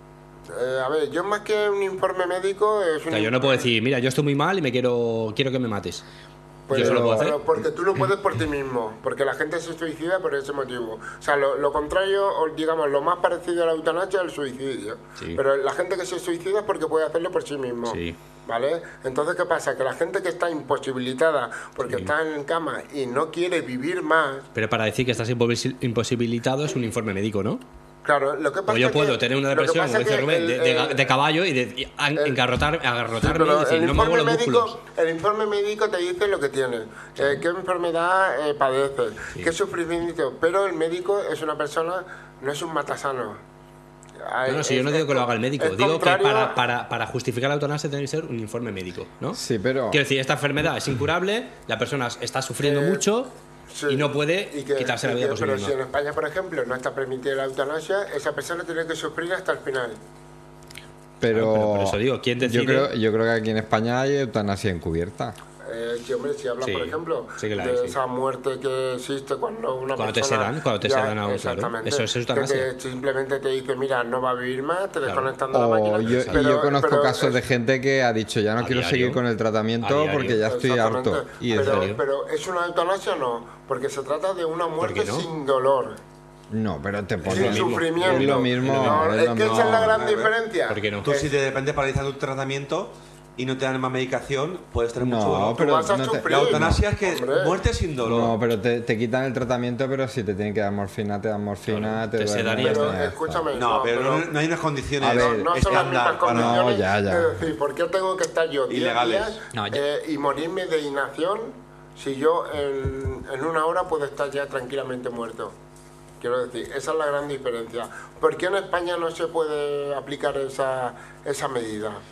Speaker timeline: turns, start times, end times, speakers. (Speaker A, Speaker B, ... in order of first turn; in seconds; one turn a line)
Speaker A: 0.5-3.7
Speaker B: 3.1-6.0
Speaker A: 6.7-24.5
Speaker C: 6.7-7.3
Speaker B: 6.7-7.4
Speaker B: 17.9-18.2
Speaker B: 24.6-27.6
Speaker A: 28.0-31.1
Speaker B: 28.7-34.8
Speaker A: 33.2-43.4
Speaker A: 44.2-46.6
Speaker B: 44.5-53.3
Speaker C: 49.3-50.0
Speaker A: 52.6-53.0
Speaker A: 53.7-60.0
Speaker B: 53.9-55.8
Speaker C: 61.2-65.3
Speaker B: 61.3-62.9
Speaker A: 65.6-77.4
Speaker B: 66.6-68.0
Speaker B: 70.0-72.7
Speaker B: 75.1-75.3
Speaker C: 75.5-81.9
Speaker B: 76.1-76.4
Speaker B: 78.6-79.2
Speaker B: 79.8-80.5
Speaker A: 80.5-86.0
Speaker B: 81.5-82.0
Speaker B: 84.8-85.3
Speaker C: 86.5-90.0
Speaker B: 87.2-89.1
Speaker A: 87.3-91.3
Speaker D: 89.4-90.3
Speaker B: 90.7-91.1
Speaker D: 91.0-95.7
Speaker C: 95.0-96.8
Speaker A: 95.5-97.6
Speaker D: 96.3-98.4
Speaker C: 98.0-103.5
Speaker B: 101.7-103.0
Speaker A: 102.6-104.3
Speaker D: 103.5-106.6
Speaker C: 105.0-107.5
Speaker A: 105.0-115.6
Speaker D: 108.7-109.4
Speaker A: 116.2-122.0